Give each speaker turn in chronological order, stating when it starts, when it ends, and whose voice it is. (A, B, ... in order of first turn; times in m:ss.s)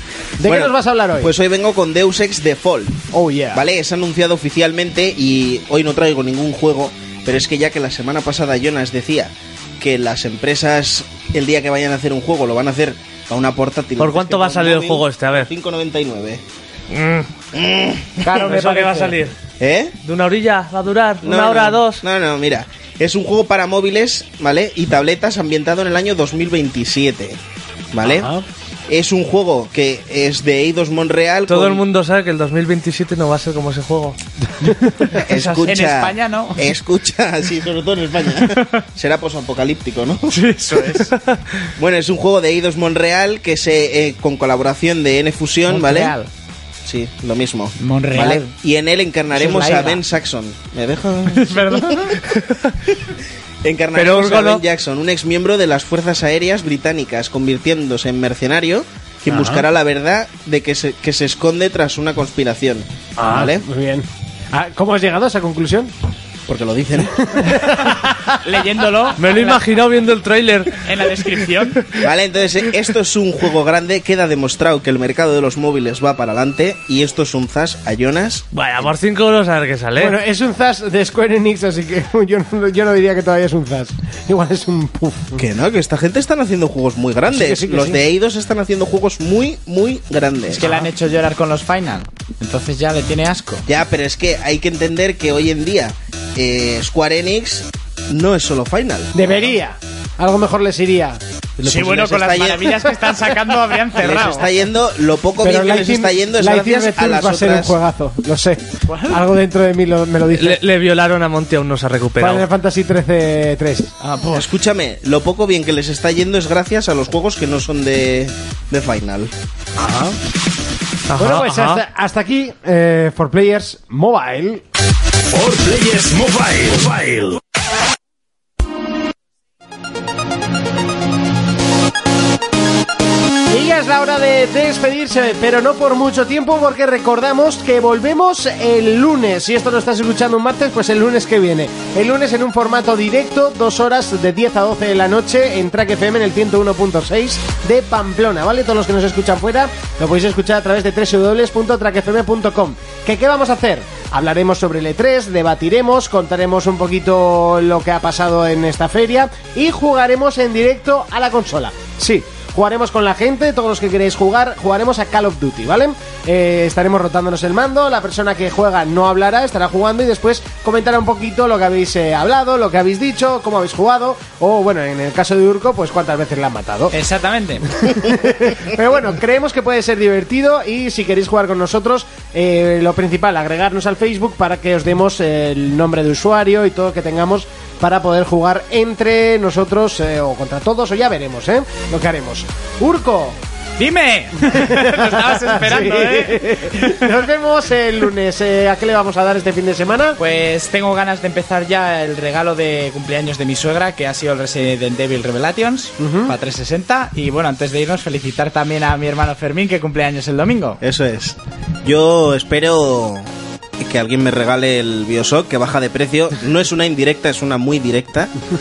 0:00.4-0:01.3 A
0:00.4-0:16.4 B
0:03.1-0:03.6 A
0:14.0-0:15.5 C
0:16.9-0:17.3 C
0:17.6-0:18.2 B
0:18.2-0:19.2 D
0:18.4-0:19.4 C
0:19.6-0:20.0 B
0:20.0-0:22.0 C
0:21.2-0:27.4 B
0:27.9-0:28.3 B
0:28.0-0:28.4 A
0:28.9-0:31.8 B
0:31.5-0:34.2 C
0:35.2-0:40.4 B
0:35.3-0:36.7 D
0:40.3-0:41.1 D
0:41.2-0:41.6 C
0:41.8-0:46.2 B
0:45.7-0:46.3 D
0:46.8-0:52.1 B
0:47.8-0:48.5 D
0:49.3-0:50.0 D
0:51.3-0:52.2 D
0:52.2-0:52.8 C
0:53.6-1:03.6 B
0:53.9-0:54.6 C
0:59.3-0:59.6 A
1:03.2-1:05.9 A
1:06.5-1:07.6 B
1:07.2-1:08.4 A
1:08.4-1:09.7 D
1:09.2-1:10.8 C
1:10.8-1:11.8 D
1:12.0-1:18.5 B
1:18.5-1:20.2 C
1:20.0-1:25.4 A
1:25.4-1:30.6 B
1:27.3-1:28.0 A
1:30.5-1:33.7 D
1:33.7-1:39.5 B
1:39.1-1:41.2 A
1:41.6-1:42.8 B
1:41.6-1:44.5 D
1:44.0-1:47.8 B
1:45.4-1:50.6 A
1:48.9-1:49.2 D
1:50.3-1:52.5 C
1:52.2-1:54.0 A
1:54.0-1:54.5 D
1:54.3-1:59.3 B
1:59.8-2:00.2 A
2:01.1-2:01.8 C
2:01.2-2:04.6 A
2:05.3-2:07.4 E
2:13.5-2:56.9 A
2:56.9-2:57.7 D
2:57.7-3:13.4 A
3:13.8-3:17.0 D
3:14.5-3:20.2 A
3:20.2-3:30.8 D
3:26.0-3:26.3 A
3:30.8-3:33.3 B
3:33.8-3:38.3 B